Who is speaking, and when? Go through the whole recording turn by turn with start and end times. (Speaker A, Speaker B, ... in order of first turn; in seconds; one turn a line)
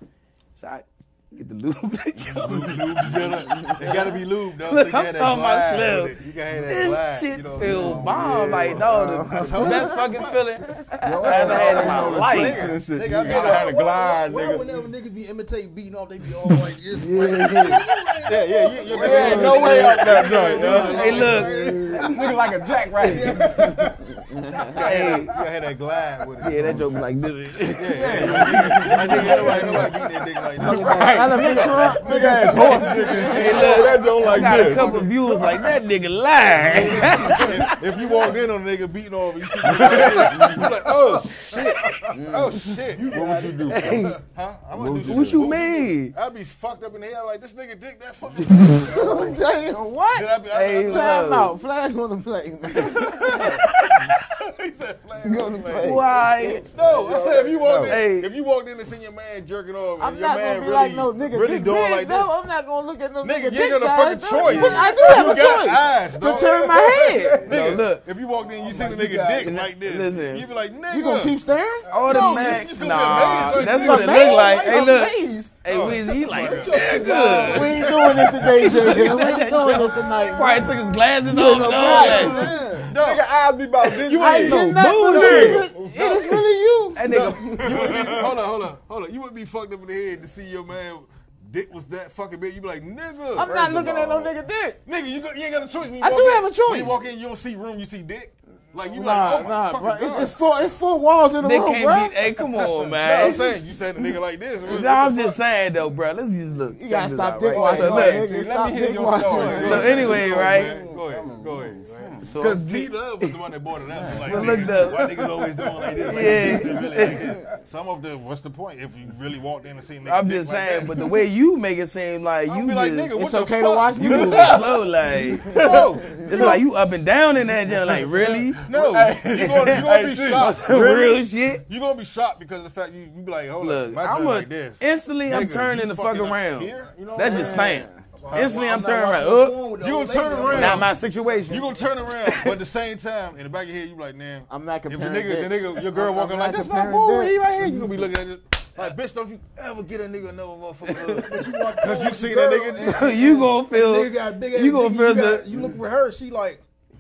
Speaker A: 0.6-2.9
Speaker B: 2.2-10.4
Speaker C: 3.6-3.9
Speaker A: 4.6-12.7
Speaker D: 7.6-8.8
Speaker C: 8.2-10.0
Speaker C: 10.8-11.4
Speaker D: 11.0-14.8
Speaker B: 11.4-14.0
Speaker E: 13.0-22.3
Speaker C: 16.9-17.8
Speaker B: 18.3-21.5
Speaker D: 18.9-23.7
Speaker C: 19.1-19.9
Speaker A: 20.7-22.4
Speaker A: 23.0-23.3
Speaker E: 23.0-24.2
Speaker C: 24.2-24.6
Speaker B: 24.7-26.9
Speaker A: 24.7-25.3
Speaker A: 26.4-29.6
Speaker B: 27.8-32.0
Speaker D: 27.9-29.9
Speaker E: 28.5-29.8
Speaker C: 30.6-33.8
Speaker D: 30.6-35.1
Speaker E: 31.5-33.6
Speaker A: 33.2-37.8
Speaker B: 33.3-35.7
Speaker B: 36.5-49.4
Speaker E: 36.7-38.4
Speaker D: 39.6-40.7
Speaker E: 39.9-42.1
Speaker C: 42.1-42.7
Speaker E: 42.9-44.0
Speaker D: 43.0-44.2
Speaker A: 43.7-44.2
Speaker D: 44.7-45.5
Speaker A: 45.0-46.1
Speaker C: 48.7-53.6
Speaker B: 50.1-51.3
Speaker A: 50.5-51.5
Speaker B: 52.8-62.3
Speaker C: 55.2-56.7
Speaker A: 55.8-56.6
Speaker E: 56.8-57.5
Speaker D: 57.5-58.0
Speaker A: 57.9-58.3
Speaker C: 60.0-67.5
Speaker B: 63.2-71.4
Speaker A: 64.5-64.8
Speaker E: 66.4-67.8
Speaker A: 67.5-68.0
Speaker E: 68.5-69.6
Speaker A: 69.4-70.5
Speaker C: 70.9-71.9
Speaker A: 71.9-82.4
Speaker B: 72.0-74.6
Speaker C: 73.4-75.9
Speaker B: 75.7-77.1
Speaker E: 76.3-79.0
Speaker C: 77.3-82.9
Speaker D: 81.5-84.6
Speaker E: 82.0-82.3
Speaker B: 82.9-83.2
Speaker B: 84.0-85.7
Speaker C: 84.2-88.3
Speaker A: 84.4-85.7
Speaker D: 85.4-86.4
Speaker A: 87.0-87.6
Speaker B: 87.0-94.3
Speaker D: 87.6-88.3
Speaker C: 93.3-94.8
Speaker B: 94.8-100.4
Speaker C: 96.0-97.0
Speaker C: 98.8-102.2
Speaker A: 101.4-103.5
Speaker B: 103.0-105.4
Speaker A: 104.7-108.2
Speaker C: 106.7-110.2
Speaker D: 107.5-112.4
Speaker B: 107.6-107.9
Speaker B: 109.2-121.0
Speaker A: 109.5-110.7
Speaker A: 112.2-113.3
Speaker D: 113.9-115.1
Speaker A: 114.2-115.1
Speaker D: 115.8-116.5
Speaker A: 116.1-117.3
Speaker A: 120.0-123.1
Speaker B: 122.5-124.5
Speaker C: 123.2-124.6
Speaker A: 124.0-128.6
Speaker D: 124.1-124.6
Speaker C: 125.2-126.6
Speaker B: 125.5-126.6
Speaker D: 128.2-131.2
Speaker B: 128.2-130.9
Speaker A: 129.4-129.8
Speaker A: 130.3-131.6
Speaker B: 131.7-137.8
Speaker A: 133.6-139.6
Speaker C: 137.2-138.0
Speaker E: 138.2-140.9
Speaker B: 138.3-138.6
Speaker B: 139.8-140.9
Speaker A: 140.5-142.5
Speaker B: 141.5-153.4
Speaker C: 144.5-148.0
Speaker A: 150.9-151.2
Speaker E: 151.2-156.6
Speaker A: 152.8-155.5